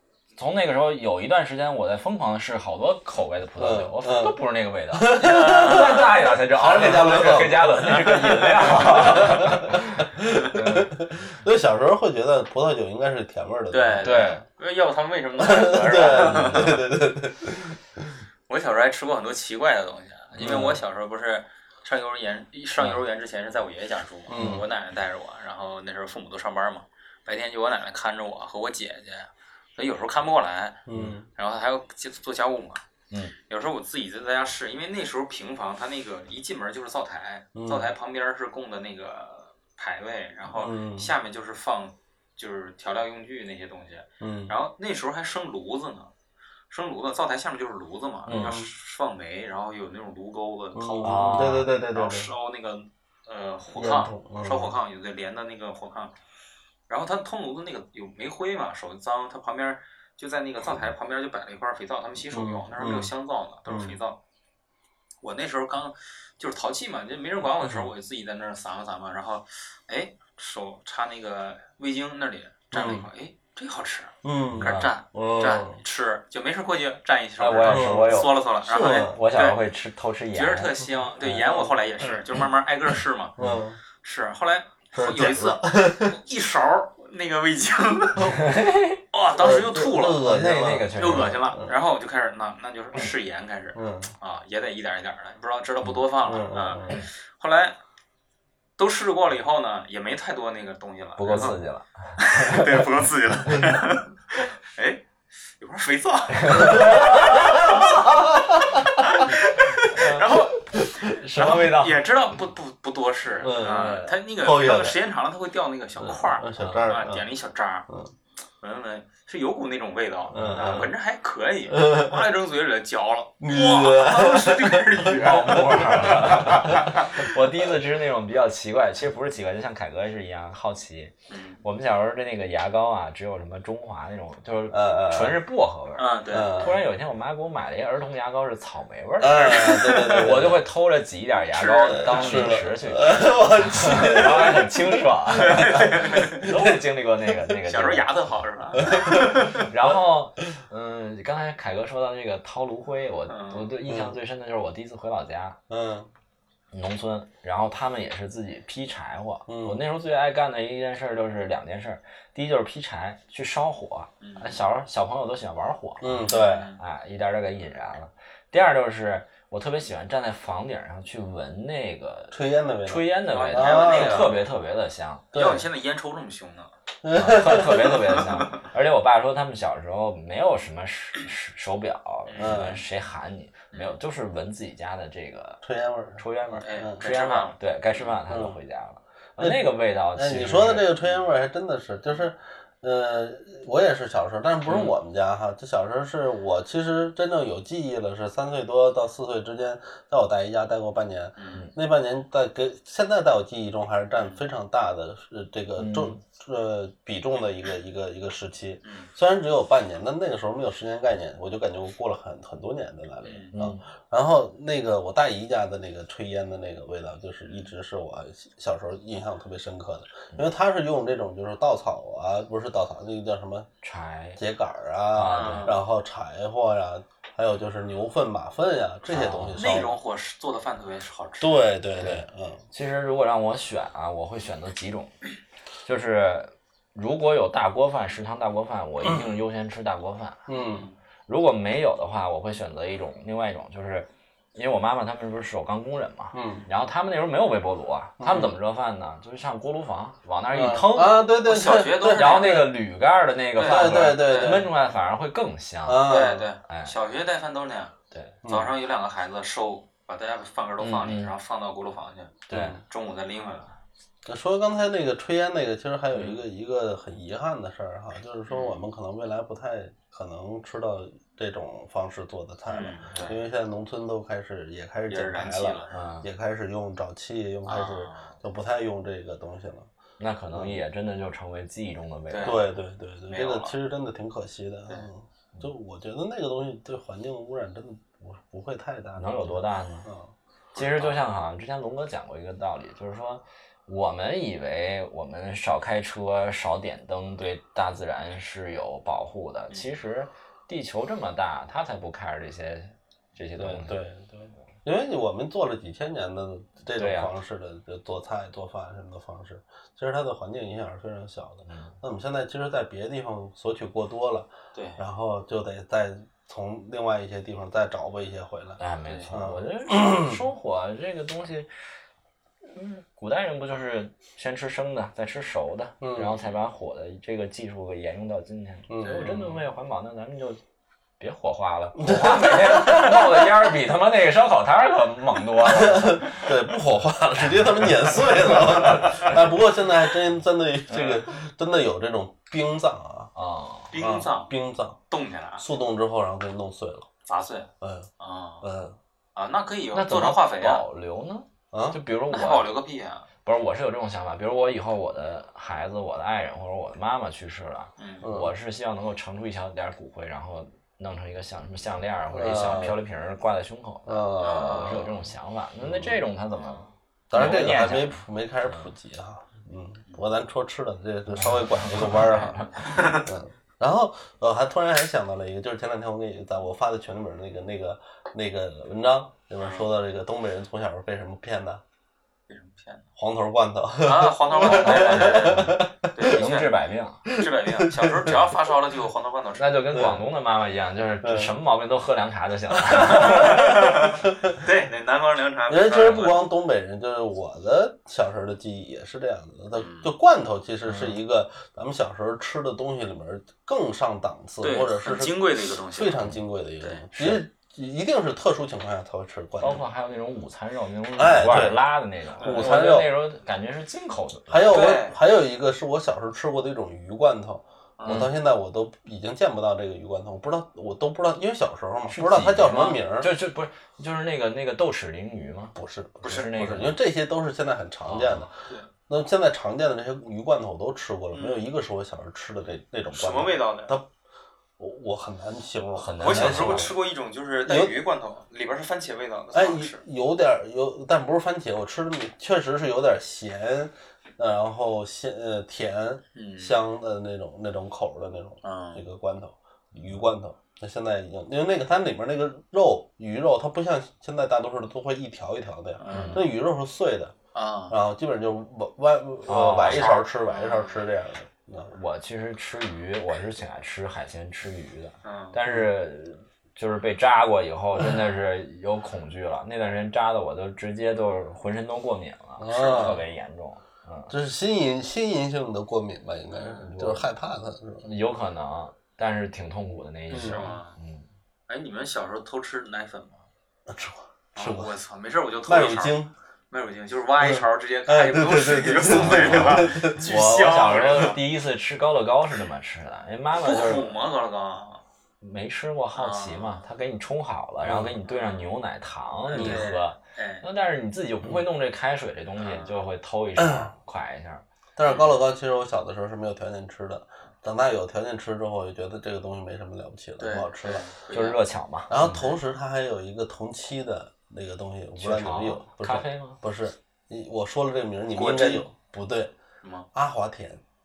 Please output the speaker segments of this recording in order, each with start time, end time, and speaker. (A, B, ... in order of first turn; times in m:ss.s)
0:00.4-0:11.1 A
0:03.6-0:04.4 B
0:04.9-0:14.4 B
0:05.2-0:06.0 C
0:13.7-0:16.8 C
0:14.0-0:14.4 A
0:15.4-0:18.2 B
0:16.2-0:16.8 A
0:18.5-0:30.8 C
0:20.4-0:20.8 A
0:20.4-0:20.8 B
0:24.3-0:24.6 B
0:24.3-0:24.6 A
0:30.9-0:31.3 B
0:31.4-0:32.8 C
0:33.4-0:46.1 C
0:37.6-0:37.9 B
0:40.5-0:41.1 B
0:44.2-0:44.6 B
0:46.7-0:56.2 C
0:48.3-0:48.6 A
0:48.3-0:48.7 B
0:50.7-0:52.3 B
0:51.0-0:51.7 A
0:53.8-0:54.8 B
0:56.9-1:04.2 C
1:02.3-1:03.1 B
1:03.7-1:04.0 B
1:05.2-1:19.6 C
1:12.7-1:13.1 B
1:14.2-1:15.8 B
1:14.5-1:14.9 A
1:17.4-1:20.9 A
1:17.7-1:19.2 B
1:20.3-1:23.4 C
1:21.2-1:21.8 B
1:23.4-1:23.8 B
1:24.0-1:28.6 C
1:24.9-1:26.2 B
1:28.2-1:28.6 B
1:28.3-1:29.0 A
1:29.1-1:30.2 C
1:29.4-1:31.7 B
1:30.2-1:31.4 A
1:31.0-1:37.8 C
1:33.8-1:34.1 B
1:36.3-1:37.0 B
1:38.8-1:41.6 C
1:41.2-1:42.9 A
1:42.2-1:57.9 C
1:46.4-1:47.9 A
1:46.6-1:49.1 B
1:49.9-1:50.5 A
1:51.1-1:52.0 A
1:53.4-1:55.0 B
1:53.6-1:54.1 A
1:56.0-1:57.3 B
1:56.6-1:56.9 A
1:58.6-2:07.3 C
2:00.3-2:00.9 A
2:00.3-2:00.9 B
2:01.7-2:02.2 B
2:03.4-2:07.2 B
2:05.1-2:28.1 A
2:11.3-2:11.6 C
2:14.7-2:15.4 B
2:16.0-2:16.7 C
2:16.3-2:16.8 B
2:19.2-2:20.6 B
2:19.4-2:20.0 C
2:21.4-2:22.6 C
2:21.9-2:24.8 B
2:25.4-2:26.5 C
2:25.5-2:26.8 B
2:27.7-2:29.7 C
2:28.8-2:29.6 B
2:28.8-2:35.6 A
2:33.3-2:33.7 C
2:33.8-2:34.2 B
2:35.7-2:36.1 B
2:36.7-2:55.3 A
2:39.5-2:39.8 B
2:44.2-2:44.6 C
2:46.0-2:46.7 B
2:46.2-2:46.8 C
2:52.3-2:54.4 B
2:53.3-2:54.4 C
2:55.3-2:55.7 B
2:55.3-2:56.7 C
2:57.0-2:58.2 B
2:57.2-3:05.6 A
3:02.3-3:02.6 C
3:02.4-3:02.8 B
3:05.6-3:07.0 B
3:06.2-3:11.0 A
3:06.6-3:08.1 C
3:08.3-3:08.6 B
3:09.4-3:43.7 B
3:14.7-3:15.0 A
3:21.4-3:21.7 C
3:25.8-3:26.2 A
3:28.8-3:29.1 C
3:33.2-3:33.5 C
3:33.5-3:33.8 A
3:37.4-3:37.7 C
3:43.8-3:44.4 A
3:44.4-3:49.9 B
3:45.1-3:45.8 A
3:45.3-3:45.8 C
3:49.1-3:49.8 A
3:49.6-3:51.7 C
3:51.4-3:52.6 B
3:52.0-3:55.2 A
3:55.8-4:00.4 A
3:59.0-3:59.3 B
4:00.5-4:00.9 B
4:00.5-4:01.0 C
4:01.3-4:11.2 A
4:06.3-4:06.7 B
4:08.2-4:08.6 B
4:10.5-4:12.6 B
4:11.4-4:12.7 C
4:12.1-4:16.2 A
4:13.6-4:14.6 C
4:13.6-4:14.7 B
4:15.8-4:16.5 B
4:16.0-4:17.9 C
4:16.7-4:16.9 A
4:18.1-4:18.4 A
4:18.4-4:18.7 B
4:18.5-4:23.7 C
4:20.8-4:21.3 A
4:22.5-4:22.8 A
4:22.5-4:22.8 B
4:24.2-4:39.9 B
4:28.5-4:28.8 C
4:32.7-4:33.4 C
4:35.1-4:36.0 C
4:35.9-4:36.3 A
4:37.7-4:38.4 C
4:40.2-4:42.7 A
4:40.5-4:40.8 B
4:42.3-4:42.6 C
4:42.4-4:50.3 B
4:43.3-4:43.7 C
4:49.2-4:50.1 A
4:50.8-4:51.2 C
4:50.8-5:04.0 A
5:03.6-5:18.8 B
5:07.0-5:07.4 A
5:11.7-5:12.0 A
5:14.7-5:15.0 C
5:18.8-5:21.7 A
5:19.0-5:19.3 C
5:19.3-5:20.4 B
5:22.6-5:30.6 A
5:26.0-5:26.4 B
5:28.9-5:29.6 B
5:29.0-5:29.3 C
5:31.2-5:36.6 A
5:32.0-5:33.7 B
5:35.6-5:43.3 B
5:37.5-5:39.4 A
5:40.9-5:41.2 A
5:43.4-5:43.9 A
5:43.9-5:44.5 C
5:44.0-5:45.0 B
5:45.1-5:45.6 C
5:45.6-5:47.1 B
5:47.3-5:48.7 C
5:47.8-5:48.1 B
5:48.6-5:49.0 B
5:49.4-5:50.8 C
5:49.9-5:52.7 A
5:51.7-5:52.0 B
5:52.3-5:53.3 C
5:53.4-6:08.9 A
5:58.0-5:58.3 C
5:58.2-5:58.5 B
6:02.3-6:03.0 B
6:04.1-6:05.1 B
6:04.4-6:05.1 C
6:05.8-6:06.2 B
6:07.3-6:21.8 B
6:11.3-6:13.0 A
6:12.3-6:13.3 C
6:19.6-6:19.9 C
6:22.5-6:23.1 C
6:23.2-6:26.5 B
6:24.0-6:26.8 C
6:24.5-6:27.2 A
6:27.3-6:28.4 B
6:27.3-6:29.9 C
6:29.6-6:33.8 A
6:29.9-6:30.2 B
6:31.2-6:31.6 B
6:32.9-6:33.8 B
6:33.1-6:36.5 C
6:35.7-6:49.8 B
6:39.8-6:40.1 C
6:40.9-6:41.2 A
6:44.6-6:46.2 C
6:46.8-6:47.1 C
6:49.6-6:54.9 A
6:51.2-6:51.8 B
6:52.4-6:52.7 C
6:52.4-6:53.1 B
6:54.5-7:03.3 B
6:54.7-6:55.2 C
6:58.0-6:58.3 C
6:58.1-6:58.3 A
7:02.1-7:07.0 A
7:05.8-7:08.5 B
7:08.1-7:08.9 C
7:08.1-7:08.4 A
7:09.1-7:14.1 B
7:11.3-7:11.7 C
7:13.1-7:14.0 C
7:14.8-7:17.0 B
7:16.0-7:16.9 A
7:16.2-7:20.0 C
7:17.7-7:18.0 B
7:19.5-7:37.4 B
7:26.4-7:26.8 C
7:28.6-7:29.0 C
7:36.0-7:36.4 C
7:36.1-7:36.4 A
7:37.5-7:38.0 C
7:37.9-7:42.0 B
7:39.5-7:40.2 A
7:39.8-7:41.0 C
7:41.9-7:54.3 A
7:45.2-7:45.6 C
7:52.6-7:53.2 B
7:52.7-7:53.2 C
7:54.3-7:58.1 B
7:56.5-7:56.9 C
7:56.8-7:57.3 A
7:58.0-8:01.3 A
8:00.3-8:00.7 B
8:00.4-8:01.0 C
8:01.7-8:03.5 C
8:03.9-8:04.9 B
8:04.6-8:06.2 C
8:05.7-8:06.3 B
8:06.7-8:11.4 C
8:07.4-8:11.3 B
8:09.0-8:14.1 A
8:13.5-8:15.0 C
8:15.4-8:24.6 A
8:16.1-8:16.8 C
8:17.8-8:18.2 B
8:18.3-8:18.7 C
8:19.5-8:20.6 C
8:19.6-8:19.9 B
8:22.6-8:23.0 C
8:23.6-8:23.9 B
8:25.0-8:31.1 B
8:25.0-8:25.4 C
8:30.4-8:31.6 C
8:31.3-8:32.4 A
8:32.1-8:39.5 B
8:32.2-8:32.6 C
8:35.2-8:36.6 A
8:38.3-8:38.8 C
8:39.8-8:40.1 C
8:40.1-8:40.8 B